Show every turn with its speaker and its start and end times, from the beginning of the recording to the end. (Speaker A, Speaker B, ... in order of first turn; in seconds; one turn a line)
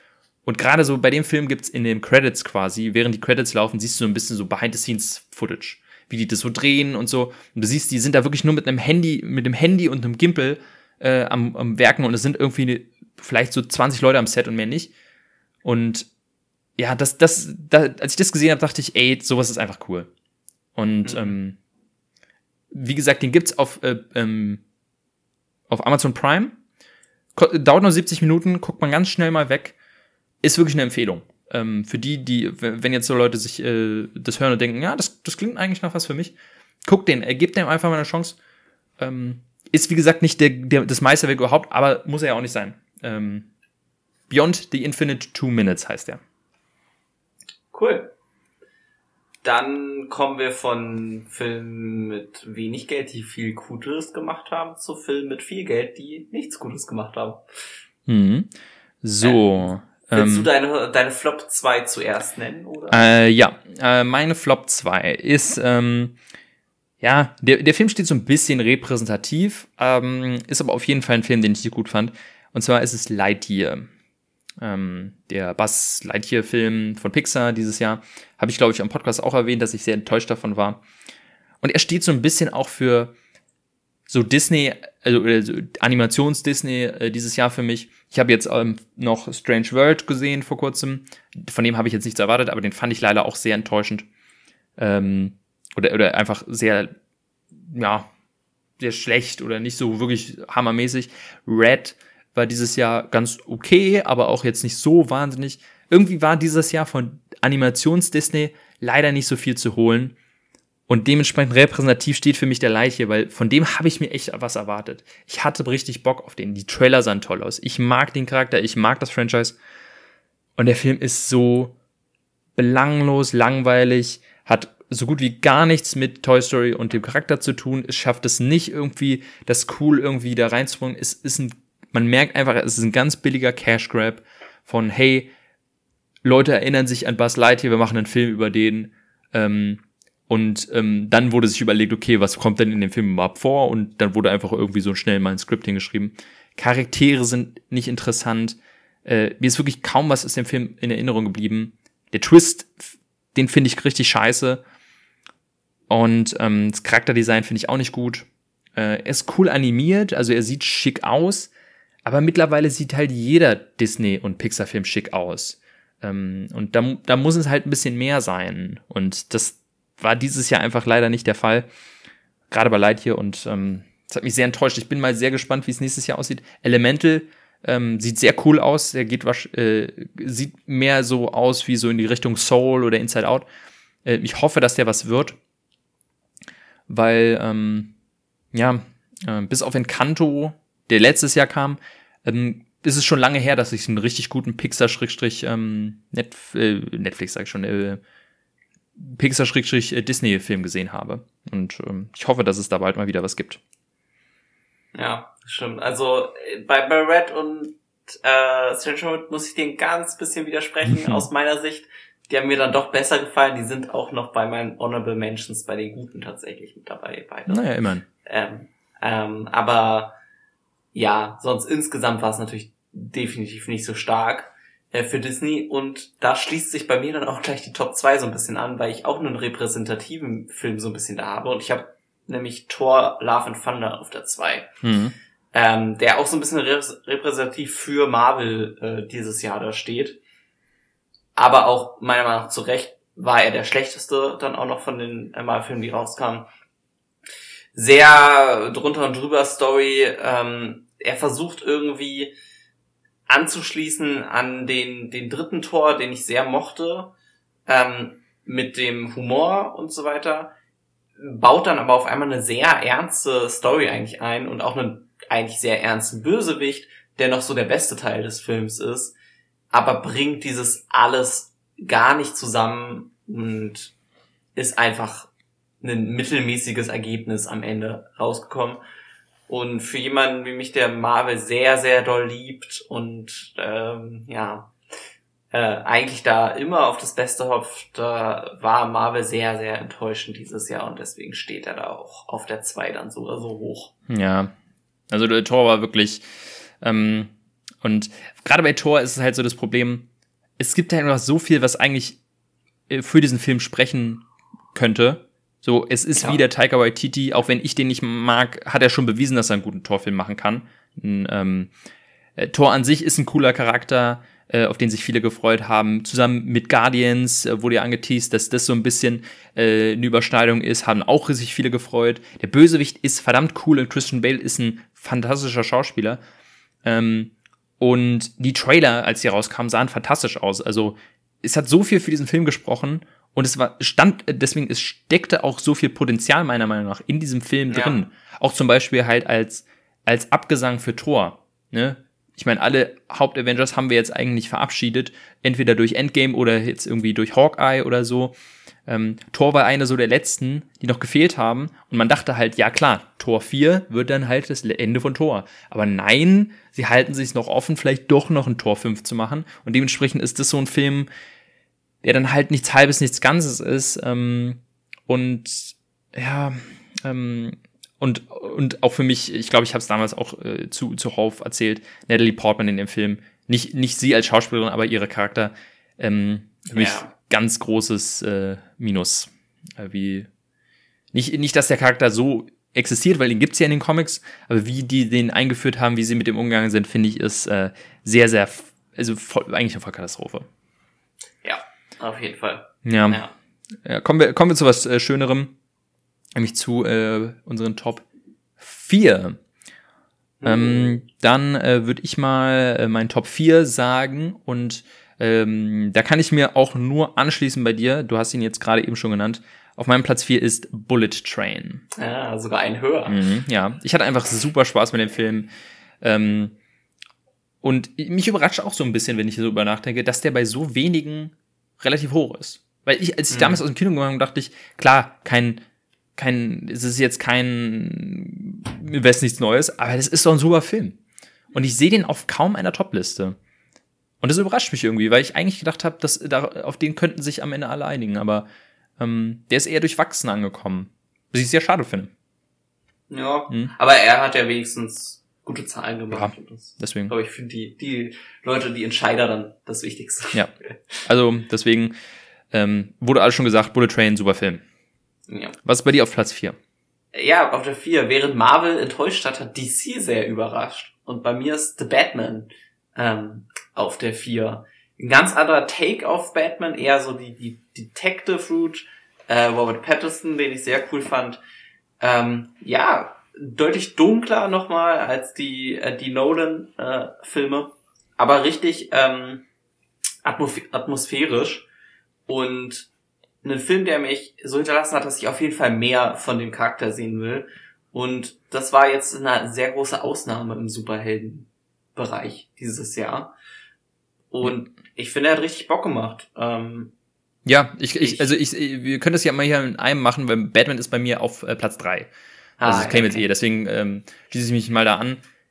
Speaker A: 0.4-14.9
Speaker A: 15.6-16.1
Speaker A: 16.8-20.1
Speaker A: 20.8-21.6
Speaker B: 21.0-21.3
Speaker A: 22.7-24.6
Speaker A: 25.7-26.6
Speaker A: 27.4-29.7
Speaker A: 30.4-36.3
Speaker A: 36.9-38.4
Speaker A: 39.0-43.5
Speaker A: 44.3-46.2
Speaker B: 47.7-48.1
Speaker B: 49.4-57.4
Speaker A: 58.1-58.5
Speaker A: 59.0-60.5
Speaker B: 59.2-63.1
Speaker A: 62.9-66.1
Speaker A: 67.0-73.9
Speaker A: 74.6-80.8
Speaker A: 81.6-83.1
Speaker A: 84.1-94.1
Speaker A: 94.8-96.9
Speaker A: 97.7-98.1
Speaker A: 98.8-110.1
Speaker A: 110.9-119.5
Speaker A: 120.6-121.7
Speaker A: 122.5-135.3
Speaker A: 136.2-154.6
Speaker A: 155.9-161.5
Speaker A: 162.0-171.7
Speaker A: 172.5-183.4
Speaker A: 184.0-185.4
Speaker A: 186.9-187.9
Speaker A: 188.5-198.0
Speaker A: 199.0-203.6
Speaker B: 204.9-217.6
Speaker A: 210.9-211.2
Speaker A: 217.5-218.0
Speaker B: 218.2-220.1
Speaker B: 220.9-234.7
Speaker A: 234.8-235.1
Speaker B: 235.5-240.2
Speaker B: 241.3-246.4
Speaker B: 247.7-252.3
Speaker B: 253.3-257.1
Speaker B: 257.7-260.5
Speaker B: 261.2-269.1
Speaker B: 269.7-273.9
Speaker B: 274.6-275.3
Speaker B: 275.8-278.8
Speaker B: 279.5-284.7
Speaker B: 285.5-293.9
Speaker A: 294.1-294.5
Speaker A: 295.1-296.2
Speaker A: 296.8-297.3
Speaker A: 297.8-300.1
Speaker A: 300.6-302.2
Speaker A: 302.9-304.2
Speaker A: 304.7-311.7
Speaker A: 312.4-326.2
Speaker A: 326.8-348.3
Speaker B: 337.7-337.9
Speaker A: 348.9-361.1
Speaker A: 362.0-380.3
Speaker B: 376.7-377.1
Speaker A: 381.1-390.5
Speaker B: 391.4-393.3
Speaker A: 392.8-393.2
Speaker A: 393.8-395.5
Speaker A: 396.4-398.0
Speaker A: 398.6-399.4
Speaker B: 400.4-401.0
Speaker A: 400.4-411.8
Speaker B: 411.9-413.2
Speaker A: 413.1-415.5
Speaker A: 416.0-416.5
Speaker A: 417.6-425.6
Speaker B: 423.3-423.6
Speaker A: 426.2-431.0
Speaker A: 431.5-433.4
Speaker A: 434.2-438.4
Speaker A: 439.0-442.1
Speaker B: 443.1-450.7
Speaker A: 446.1-447.1
Speaker A: 451.0-451.9
Speaker A: 452.5-454.6
Speaker B: 455.3-455.6
Speaker A: 455.6-456.6
Speaker B: 457.1-471.4
Speaker B: 472.0-479.4
Speaker B: 480.2-481.7
Speaker B: 482.3-482.9
Speaker B: 483.4-493.3
Speaker B: 494.3-496.9
Speaker A: 497.4-502.1
Speaker B: 502.6-503.2
Speaker A: 502.6-505.2